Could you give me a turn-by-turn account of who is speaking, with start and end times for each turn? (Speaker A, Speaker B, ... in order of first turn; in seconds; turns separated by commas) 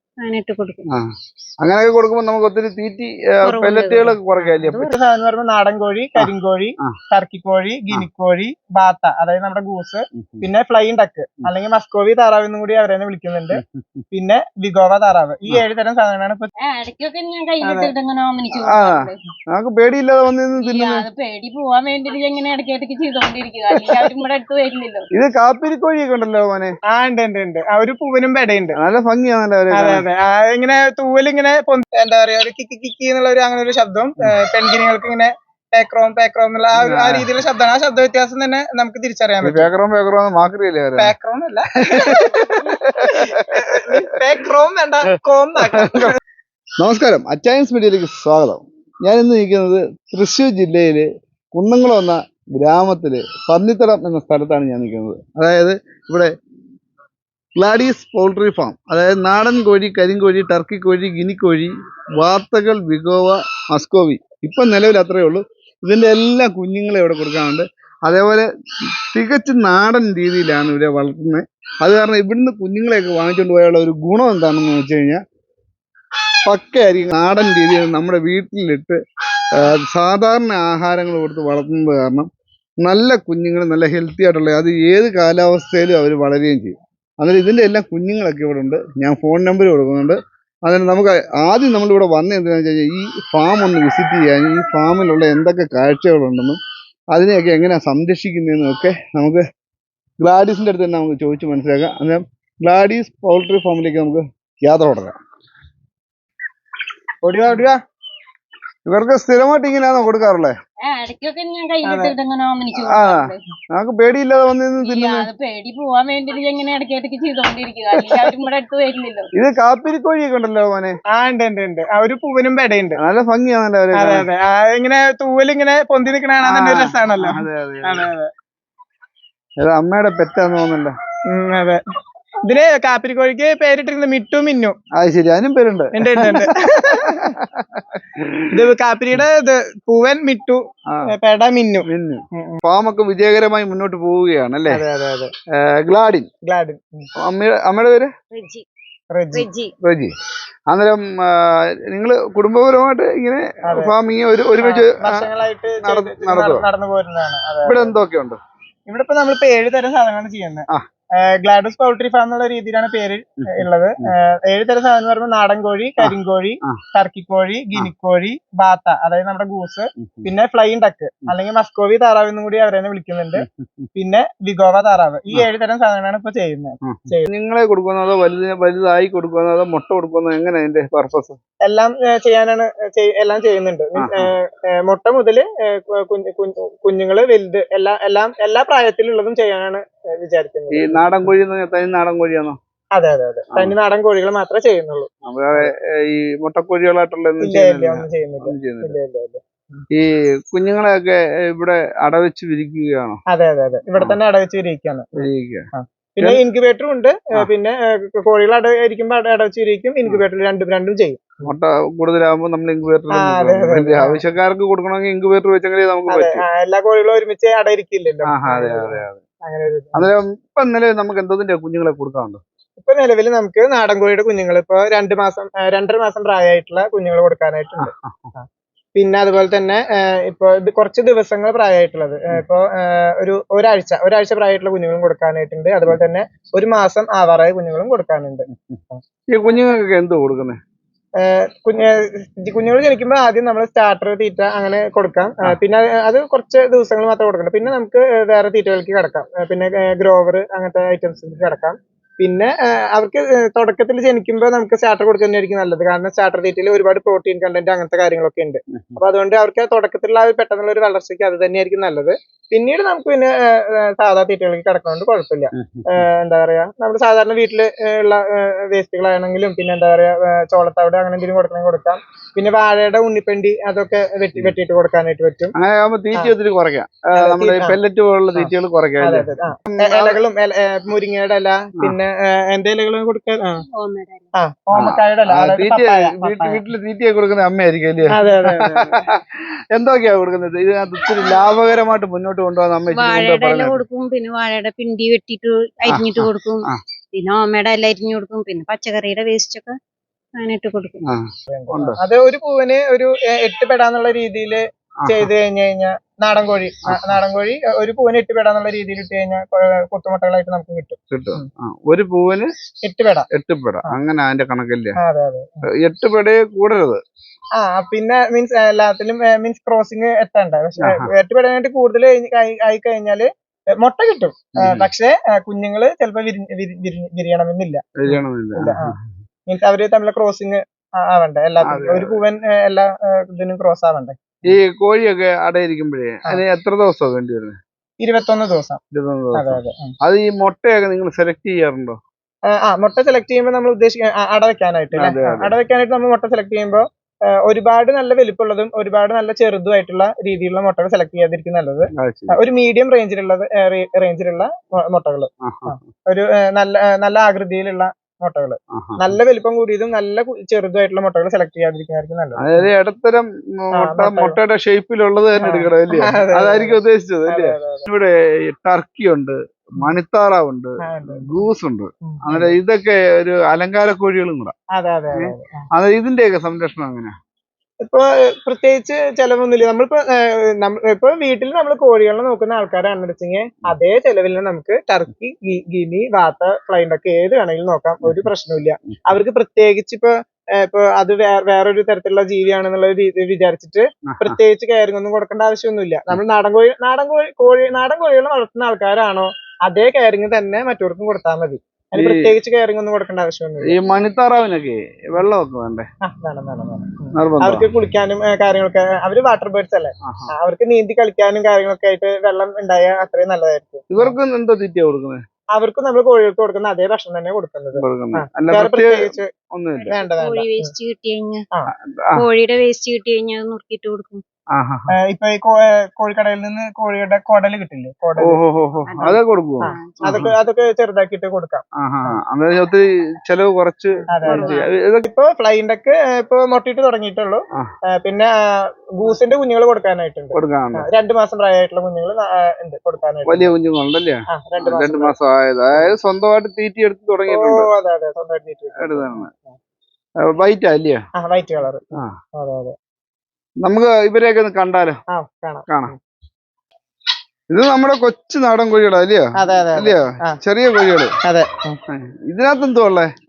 Speaker A: 0.2-0.8, Speaker B: 1.6-4.9, Speaker A: 3.4-4.9, Speaker C: 4.8-13.6, Speaker B: 10.2-10.4, Speaker B: 13.5-14.0, Speaker C: 14.1-16.5, Speaker A: 16.6-19.2, Speaker C: 17.6-17.9, Speaker B: 18.6-21.1, Speaker A: 20.6-25.1, Speaker B: 25.1-26.7, Speaker C: 26.9-28.8, Speaker B: 28.8-30.0, Speaker C: 29.7-39.7, Speaker B: 36.8-37.3, Speaker B: 39.4-41.1, Speaker C: 41.0-46.2, Speaker B: 41.9-44.1, Speaker B: 45.7-46.1, Speaker B: 46.8-56.3, Speaker B: 57.5-68.5, Speaker B: 69.1-75.2, Speaker B: 76.5-79.0, Speaker B: 79.6-82.3, Speaker B: 82.8-96.6, Speaker B: 97.1-99.4, Speaker B: 100.2-105.2, Speaker C: 107.2-107.8, Speaker B: 108.8-110.5, Speaker A: 110.8-113.4, Speaker C: 111.8-112.1, Speaker B: 112.7-115.3, Speaker A: 114.8-119.3, Speaker B: 118.0-118.3, Speaker B: 119.3-120.9, Speaker C: 121.1-123.0, Speaker B: 123.0-124.3, Speaker C: 123.9-128.3, Speaker B: 126.4-128.1, Speaker B: 129.6-130.9, Speaker C: 131.3-131.8, Speaker C: 132.4-134.8, Speaker B: 134.9-137.4, Speaker C: 136.0-137.4, Speaker B: 138.1-138.5, Speaker C: 138.5-142.6, Speaker B: 141.8-144.8, Speaker C: 144.7-145.3, Speaker B: 145.5-146.3, Speaker C: 146.4-147.1, Speaker B: 147.2-148.1, Speaker A: 148.3-148.6, Speaker C: 149.1-149.5, Speaker A: 149.3-149.7, Speaker B: 149.8-150.1, Speaker B: 150.7-155.3, Speaker C: 153.6-153.9, Speaker C: 154.6-158.0, Speaker B: 155.8-156.6, Speaker B: 157.6-158.4, Speaker C: 158.9-173.4, Speaker B: 163.4-164.1, Speaker B: 166.0-166.8, Speaker B: 170.0-170.3, Speaker B: 173.4-173.9, Speaker C: 173.9-177.3, Speaker B: 176.8-181.4, Speaker C: 181.6-191.3, Speaker B: 184.0-184.3, Speaker B: 190.7-192.6, Speaker C: 192.9-195.7, Speaker B: 195.2-199.0, Speaker C: 197.4-199.8, Speaker B: 199.9-203.2, Speaker C: 203.3-211.5, Speaker B: 205.2-205.7, Speaker B: 211.4-216.4, Speaker C: 213.1-214.2, Speaker C: 216.1-220.1, Speaker B: 218.3-219.2, Speaker B: 219.9-222.4, Speaker C: 222.8-239.0, Speaker B: 227.8-228.3, Speaker B: 239.3-240.6, Speaker C: 241.2-275.5, Speaker B: 258.7-259.0, Speaker B: 265.6-266.1, Speaker B: 275.6-280.2, Speaker C: 277.1-277.8, Speaker C: 278.3-283.6, Speaker A: 283.7-284.3, Speaker C: 284.3-286.6, Speaker B: 284.7-293.8, Speaker C: 288.1-289.1, Speaker A: 292.9-299.8, Speaker B: 295.9-296.8, Speaker A: 300.4-301.0, Speaker B: 301.0-302.0, Speaker C: 301.5-311.5, Speaker B: 305.0-305.3, Speaker B: 306.9-307.2, Speaker B: 311.1-312.5, Speaker C: 312.8-313.3, Speaker B: 313.3-315.0, Speaker C: 315.0-315.7, Speaker B: 315.8-317.0, Speaker C: 317.6-323.3, Speaker B: 320.8-321.1, Speaker C: 323.8-328.9, Speaker B: 324.6-324.9, Speaker B: 328.0-328.9, Speaker C: 329.5-334.5, Speaker B: 331.6-332.2, Speaker B: 334.4-337.6, Speaker C: 338.0-338.8, Speaker B: 338.9-342.0, Speaker C: 339.3-339.9, Speaker C: 342.5-362.7, Speaker B: 344.9-345.5, Speaker B: 351.9-352.4, Speaker B: 355.4-355.9, Speaker B: 358.7-359.1, Speaker B: 362.4-374.5, Speaker C: 363.8-364.4, Speaker C: 365.4-367.9, Speaker C: 370.8-371.4, Speaker C: 372.0-372.6, Speaker C: 374.7-375.6, Speaker B: 375.1-377.1, Speaker C: 377.8-403.8, Speaker B: 388.0-388.3, Speaker B: 394.1-394.4, Speaker B: 401.9-402.3, Speaker B: 403.6-405.9, Speaker C: 406.0-414.1, Speaker B: 407.1-407.6, Speaker B: 410.0-410.3, Speaker B: 413.9-415.2, Speaker C: 415.5-419.3, Speaker B: 417.7-419.9, Speaker A: 419.8-421.4, Speaker C: 419.9-420.7, Speaker B: 421.9-422.2, Speaker A: 422.1-424.2, Speaker B: 424.5-424.9, Speaker C: 425.0-428.4, Speaker B: 428.2-430.3, Speaker A: 428.9-430.3, Speaker C: 429.6-432.2, Speaker B: 431.8-435.1, Speaker C: 434.1-443.5, Speaker A: 434.2-434.7, Speaker B: 440.3-440.9, Speaker B: 443.3-447.7, Speaker C: 444.3-445.1, Speaker C: 447.3-449.5, Speaker B: 448.8-449.3, Speaker B: 450.3-451.0, Speaker C: 451.2-452.8, Speaker B: 453.6-455.0, Speaker C: 455.1-455.9, Speaker B: 455.7-455.9, Speaker B: 457.5-461.1, Speaker C: 459.4-460.4, Speaker C: 461.2-461.8, Speaker B: 461.9-463.1